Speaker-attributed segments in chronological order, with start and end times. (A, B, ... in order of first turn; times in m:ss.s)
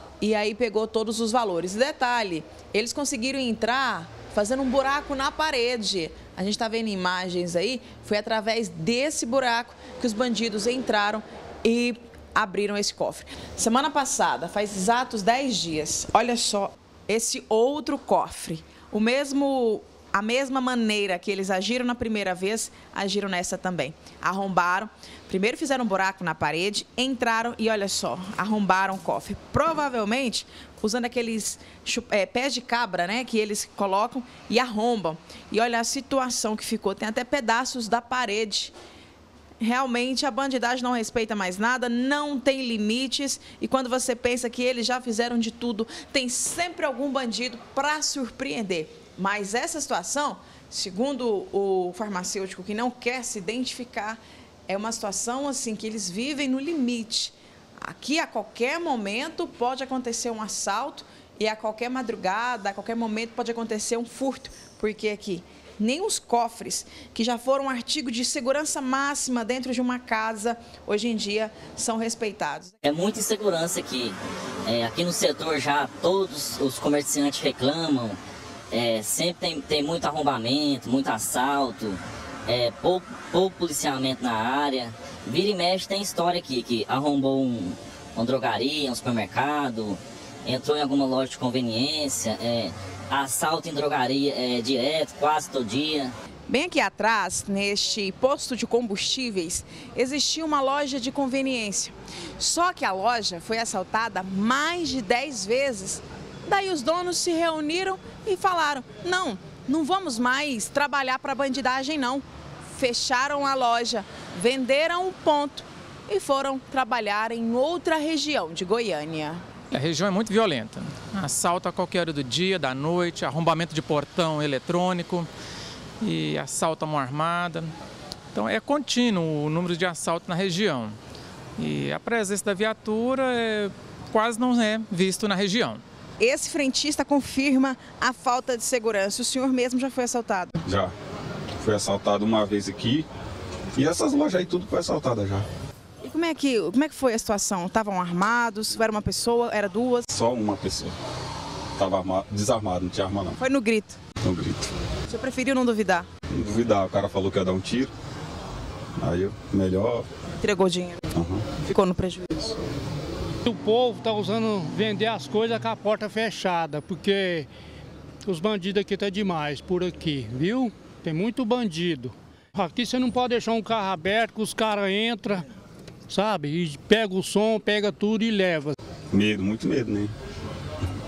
0:00.2-0:38.7 A
0:39.6-1:12.7 A
1:12.8-1:18.2 B
1:18.7-1:36.1 B
1:36.5-1:52.2 A
1:52.7-1:59.4 A
1:59.7-2:05.3 C
2:06.0-2:07.7 C
2:08.3-2:10.9 C
2:11.6-2:15.8 C
2:16.2-2:20.6 A
2:20.6-2:20.9 D
2:21.6-2:23.1 D
2:23.7-2:25.4 D
2:26.0-2:30.1 A
2:30.1-2:30.9 D
2:31.8-2:33.4 D
2:33.4-2:34.0 A
2:34.2-2:34.7 D
2:35.1-2:36.0 A
2:36.3-2:37.9 D
2:39.0-2:40.1 D
2:40.4-2:41.0 A
2:41.1-2:41.4 D
2:41.6-2:42.5 A
2:43.4-2:47.5 E
2:48.2-2:55.5 E
2:56.1-2:58.7 E
2:59.1-3:00.1 D